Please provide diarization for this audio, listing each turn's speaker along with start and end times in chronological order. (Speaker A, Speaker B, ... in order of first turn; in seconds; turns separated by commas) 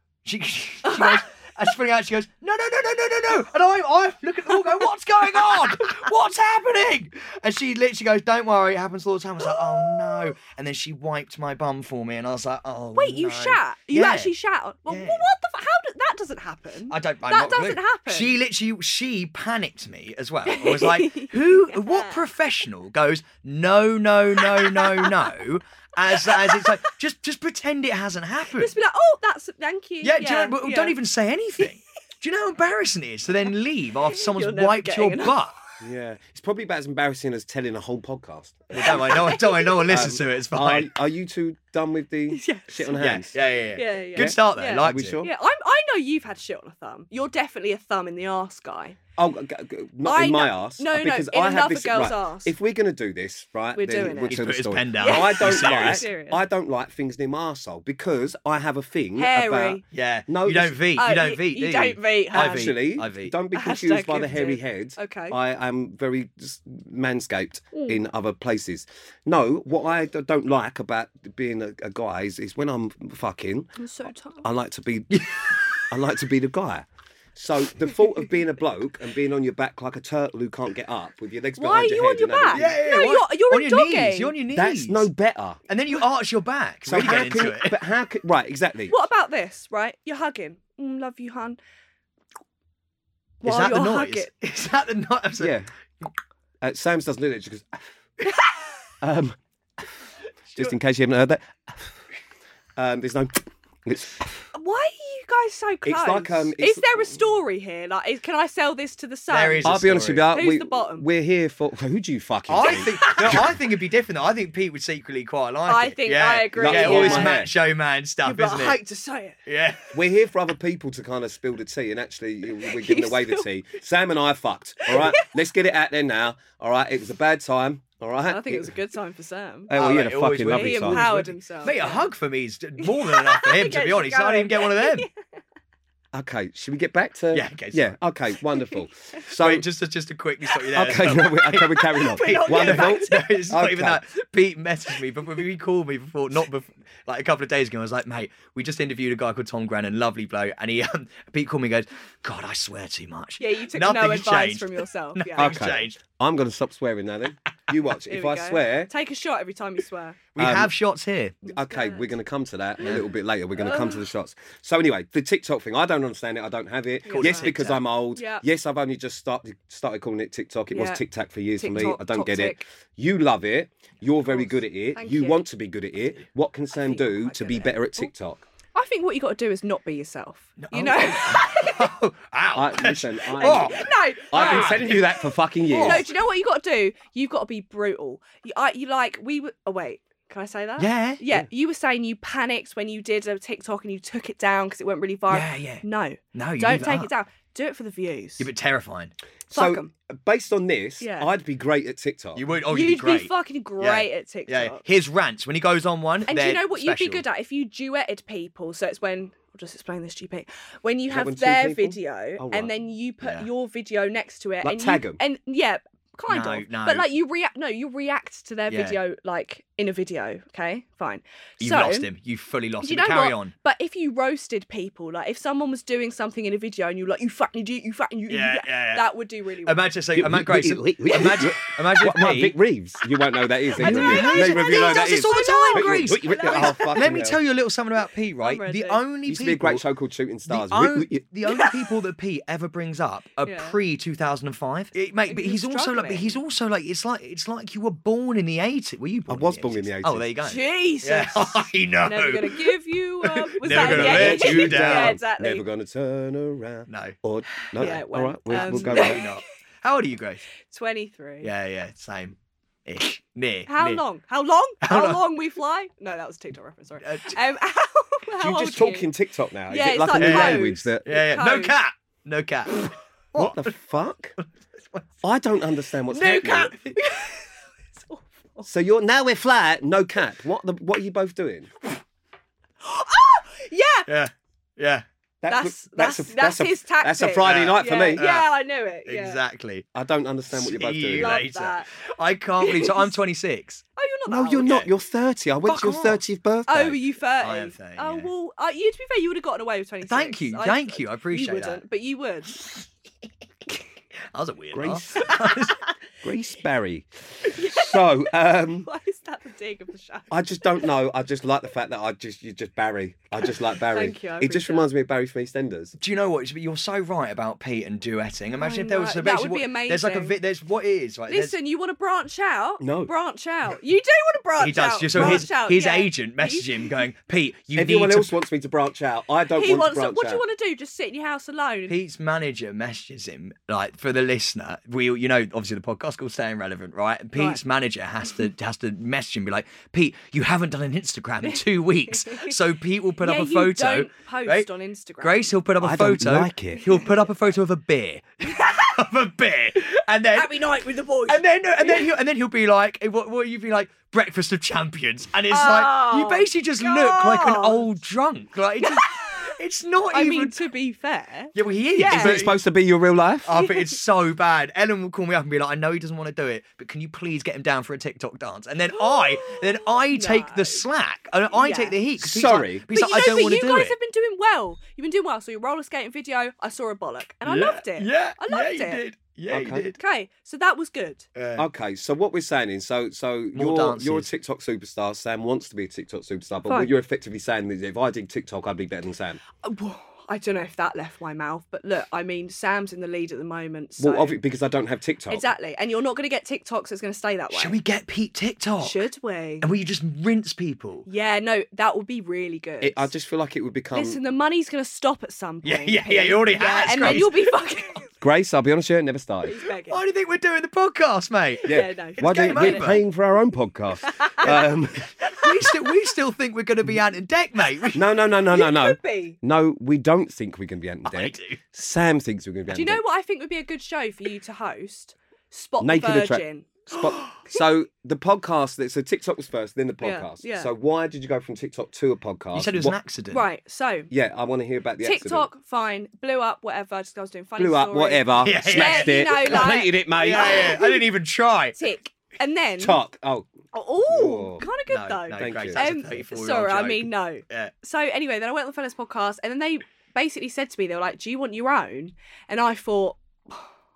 Speaker A: 0.2-14.3, Speaker B: 0.8-1.2, Speaker B: 9.5-10.2, Speaker B: 12.9-18.4, Speaker A: 14.9-15.2, Speaker A: 16.9-28.7, Speaker B: 20.5-22.2, Speaker B: 24.4-25.4, Speaker B: 26.1-26.8, Speaker B: 28.6-30.9, Speaker A: 30.0-35.5, Speaker B: 34.0-35.5, Speaker C: 35.8-43.3, Speaker A: 38.7-40.9, Speaker B: 38.8-39.9, Speaker B: 42.3-43.0, Speaker A: 43.0-45.2, Speaker B: 43.8-49.0, Speaker C: 44.1-45.3, Speaker C: 49.2-60.8, Speaker B: 50.0-52.5, Speaker B: 53.7-56.4, Speaker A: 54.3-56.1, Speaker B: 59.2-59.8, Speaker A: 59.9-63.3, Speaker B: 61.0-62.8, Speaker C: 62.3-73.7, Speaker B: 63.5-65.4, Speaker B: 73.8-74.4, Speaker C: 74.4-75.3, Speaker A: 75.1-75.9, Speaker C: 75.9-82.7, Speaker B: 81.6-84.3, Speaker A: 82.5-85.1, Speaker C: 84.5-85.6, Speaker A: 85.7-87.8, Speaker C: 86.8-89.0, Speaker B: 88.9-91.6, Speaker B: 93.4-94.3, Speaker A: 93.4-95.5, Speaker C: 95.4-95.7, Speaker C: 96.6-97.9, Speaker C: 99.0-99.4, Speaker C: 100.5-102.0, Speaker C: 102.8-104.4, Speaker B: 104.5-111.0, Speaker C: 105.8-107.2, Speaker A: 109.3-110.3, Speaker C: 109.6-113.5, Speaker A: 112.5-118.8, Speaker B: 112.7-113.4, Speaker B: 115.7-117.4, Speaker C: 116.5-117.5, Speaker B: 118.2-119.4, Speaker A: 119.5-119.9, Speaker C: 119.9-128.8, Speaker B: 122.6-123.4, Speaker B: 124.8-125.3, Speaker B: 128.3-129.7, Speaker C: 129.7-131.1, Speaker A: 129.7-135.1, Speaker B: 130.4-132.1, Speaker B: 132.8-135.1, Speaker C: 136.1-139.7, Speaker A: 137.3-138.0, Speaker A: 139.3-156.0, Speaker C: 140.7-144.0, Speaker B: 141.5-143.4, Speaker B: 153.4-155.6, Speaker C: 155.4-158.9, Speaker B: 158.1-160.2, Speaker A: 160.3-161.3, Speaker C: 160.4-160.7, Speaker C: 161.4-178.4, Speaker B: 161.4-162.1, Speaker B: 163.6-164.0, Speaker B: 167.0-167.6, Speaker A: 167.1-167.8, Speaker B: 168.1-168.4, Speaker B: 170.7-171.0, Speaker B: 171.6-172.7, Speaker B: 174.3-175.4, Speaker B: 176.7-178.1, Speaker B: 178.7-181.9, Speaker A: 180.6-185.1, Speaker C: 182.5-186.1, Speaker B: 183.3-185.2, Speaker A: 185.7-186.1, Speaker B: 185.8-198.5, Speaker A: 190.8-191.2, Speaker A: 195.3-197.1, Speaker A: 198.4-199.1, Speaker C: 199.5-202.4, Speaker B: 199.5-199.9, Speaker B: 201.0-201.3, Speaker A: 202.3-207.2, Speaker B: 202.7-204.8, Speaker B: 206.3-222.1, Speaker C: 211.1-212.7, Speaker A: 213.2-213.5, Speaker C: 214.6-215.2, Speaker A: 216.3-217.1, Speaker A: 218.7-219.0, Speaker A: 221.6-223.5, Speaker B: 222.8-229.8, Speaker A: 228.3-229.1, Speaker A: 229.6-232.6, Speaker C: 230.2-237.4, Speaker B: 233.7-237.1, Speaker A: 233.8-239.8, Speaker B: 238.4-239.0, Speaker C: 239.2-241.2, Speaker A: 240.5-255.2, Speaker B: 241.5-241.9, Speaker B: 243.4-243.8, Speaker B: 245.3-246.4, Speaker C: 249.3-250.3, Speaker B: 250.4-255.6, Speaker C: 253.7-259.2, Speaker A: 256.9-257.1, Speaker B: 257.7-259.4, Speaker A: 258.5-260.4, Speaker B: 260.7-261.5, Speaker A: 261.4-264.0, Speaker B: 263.7-269.1, Speaker A: 264.8-265.2, Speaker A: 267.0-267.4, Speaker C: 268.4-271.1, Speaker B: 269.7-271.8, Speaker A: 270.2-273.7, Speaker C: 273.4-274.4, Speaker C: 275.2-276.7, Speaker B: 276.1-278.7, Speaker A: 276.4-277.0, Speaker C: 278.6-281.7, Speaker B: 282.8-284.1, Speaker A: 284.1-285.0, Speaker C: 285.4-288.2, Speaker B: 285.5-289.4, Speaker A: 287.4-288.5, Speaker A: 289.1-289.9, Speaker C: 289.9-291.4, Speaker A: 290.5-293.8, Speaker B: 291.1-291.9, Speaker B: 292.6-293.1, Speaker B: 294.0-294.8, Speaker C: 294.3-297.0, Speaker A: 294.6-294.9, Speaker A: 295.6-296.2, Speaker B: 296.7-302.7, Speaker A: 297.4-298.3, Speaker A: 300.0-301.8, Speaker A: 304.3-305.8, Speaker C: 304.7-305.3, Speaker B: 305.2-305.7, Speaker C: 306.2-308.9, Speaker B: 307.4-310.9, Speaker C: 310.3-315.9, Speaker B: 313.8-314.9, Speaker A: 316.0-321.6, Speaker B: 318.6-320.4, Speaker B: 321.3-327.0, Speaker C: 322.8-323.1, Speaker A: 324.6-328.3, Speaker C: 325.1-325.4, Speaker C: 327.7-330.4, Speaker B: 329.5-331.9, Speaker A: 331.9-344.7, Speaker B: 342.1-342.5, Speaker B: 343.2-345.5, Speaker A: 345.2-350.6, Speaker C: 345.8-346.8, Speaker B: 350.3-352.1, Speaker A: 351.3-360.6, Speaker B: 355.5-357.9, Speaker B: 358.8-359.6, Speaker B: 360.1-362.4, Speaker A: 361.5-362.6, Speaker C: 362.1-363.5, Speaker A: 363.4-373.9, Speaker B: 363.6-364.0, Speaker B: 368.9-370.9, Speaker B: 371.5-372.0, Speaker C: 372.2-372.8, Speaker B: 372.9-379.0, Speaker A: 377.4-380.0, Speaker C: 379.5-379.9, Speaker B: 380.0-381.2, Speaker A: 381.3-381.6, Speaker C: 381.6-389.4, Speaker A: 383.5-384.3, Speaker B: 389.6-394.4, Speaker C: 394.0-395.4, Speaker B: 395.3-397.8, Speaker A: 397.5-399.0, Speaker B: 398.8-399.7, Speaker A: 399.6-401.1, Speaker B: 401.1-403.1, Speaker C: 402.8-404.2, Speaker B: 403.9-408.1, Speaker A: 405.6-407.4, Speaker C: 408.2-409.6, Speaker B: 409.4-410.0, Speaker A: 409.9-413.0, Speaker B: 411.6-412.9, Speaker C: 411.6-415.1, Speaker B: 414.0-414.7, Speaker A: 415.2-418.0, Speaker B: 415.2-415.9, Speaker C: 417.9-423.0, Speaker B: 418.5-419.4, Speaker A: 421.0-421.6, Speaker B: 422.7-426.9, Speaker C: 425.8-432.9, Speaker B: 430.0-430.7, Speaker A: 432.5-433.4, Speaker B: 433.3-434.1, Speaker C: 434.1-435.5, Speaker B: 435.0-441.1, Speaker C: 437.6-440.7, Speaker A: 438.4-441.8, Speaker B: 441.8-443.0, Speaker C: 442.8-443.5, Speaker B: 443.7-453.7, Speaker C: 444.1-444.6, Speaker A: 444.9-447.7, Speaker C: 445.3-445.8